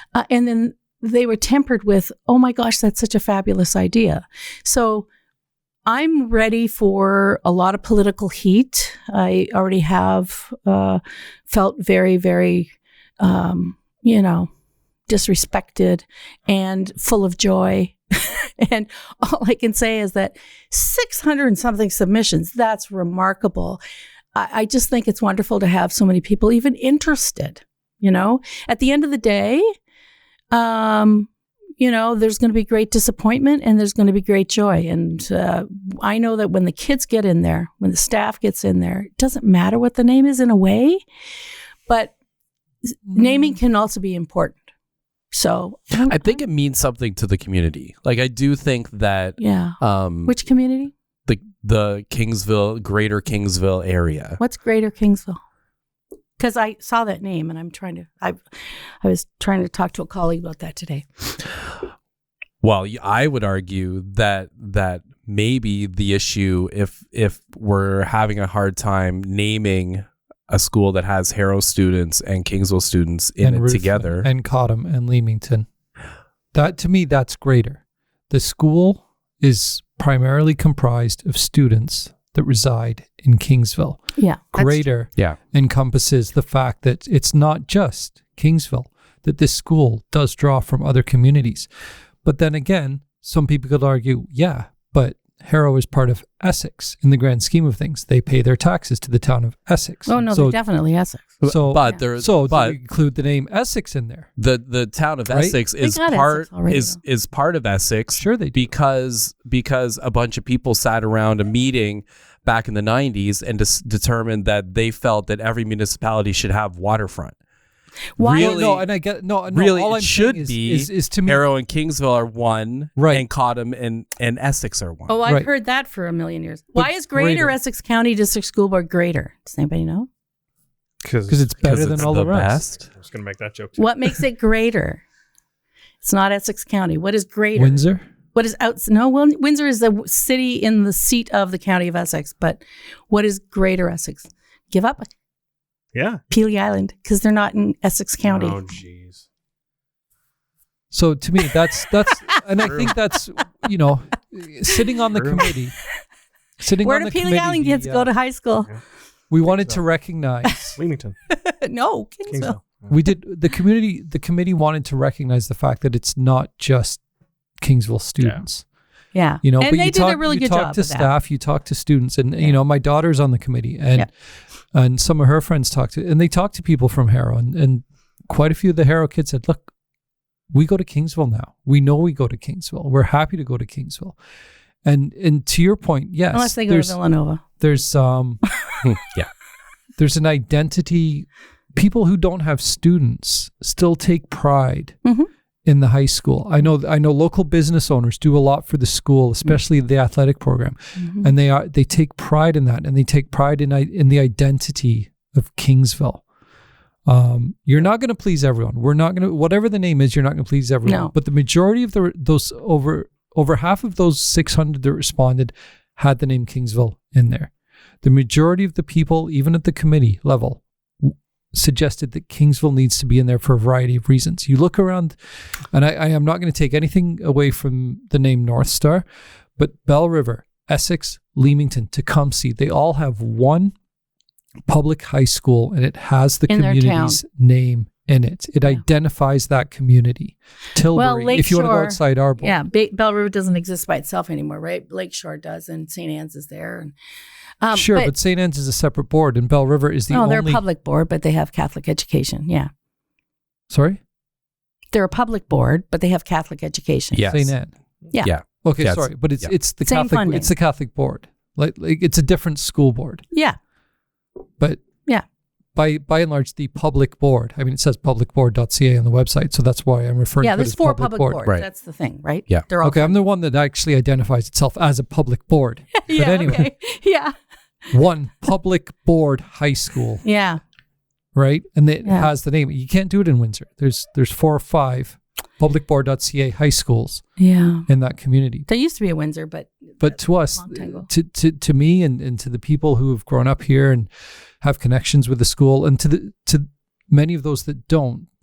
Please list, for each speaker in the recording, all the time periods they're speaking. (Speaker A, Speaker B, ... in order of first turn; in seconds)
Speaker A: 0.1-5.1, 5.8-14.5, 15.1-23.8, 24.3-29.6, 30.5-41.0, 41.9-42.1, 43.1-44.6, 45.3-46.4, 49.4-50.9, 54.4-55.4, 56.4-61.4, 84.2-84.8, 100.0-101.4, 105.8-107.0, 118.2-118.6, 125.1-130.1, 133.8-135.0, 136.0-137.8, 138.3-145.1, 146.3-148.7, 156.8-158.7, 161.3-162.6, 169.1-171.1, 186.3-187.4, 201.0-201.3, 210.8-211.1, 236.5-237.2, 240.9-246.9, 247.6-248.1, 250.1-252.7, 254.9-257.3, 259.8-260.5, 270.4-273.2, 276.0-277.3, 280.2-280.6, 282.0-282.3, 287.4-287.9, 288.7-291.1
Speaker B: 46.0-50.4, 51.3-54.4, 62.6-74.3, 101.4-102.8, 104.4-117.3, 118.2-118.9, 119.5-125.2, 131.6-132.7, 188.8-189.3, 257.1-257.5, 258.2-259.5
Speaker C: 73.4-75.7, 76.5-84.0, 84.5-91.7, 92.2-100.6, 101.4-104.3, 105.3-105.6, 108.1-108.7, 118.2-121.4, 123.0-123.2, 126.8-127.5, 131.3-132.8, 137.5-138.0, 150.9-155.8, 156.6-158.1, 159.3-160.8, 162.9-167.0, 167.6-168.6, 169.4-174.1, 174.7-179.7, 180.5-184.2, 184.8-187.0, 187.5-188.4, 190.0-195.0, 195.7-206.2, 207.1-217.5, 218.0-225.2, 225.7-229.0, 229.6-233.7, 234.7-242.6, 247.7-250.6, 253.7-254.0, 257.3-257.7, 258.6-263.2, 265.8-271.4, 272.8-276.7, 277.9-280.2, 281.3-287.2, 287.9-288.7, 290.0-294.1, 294.6-298.3
Speaker D: 131.0-134.1, 145.9-146.2, 148.2-149.2, 160.8-161.2, 162.3-162.9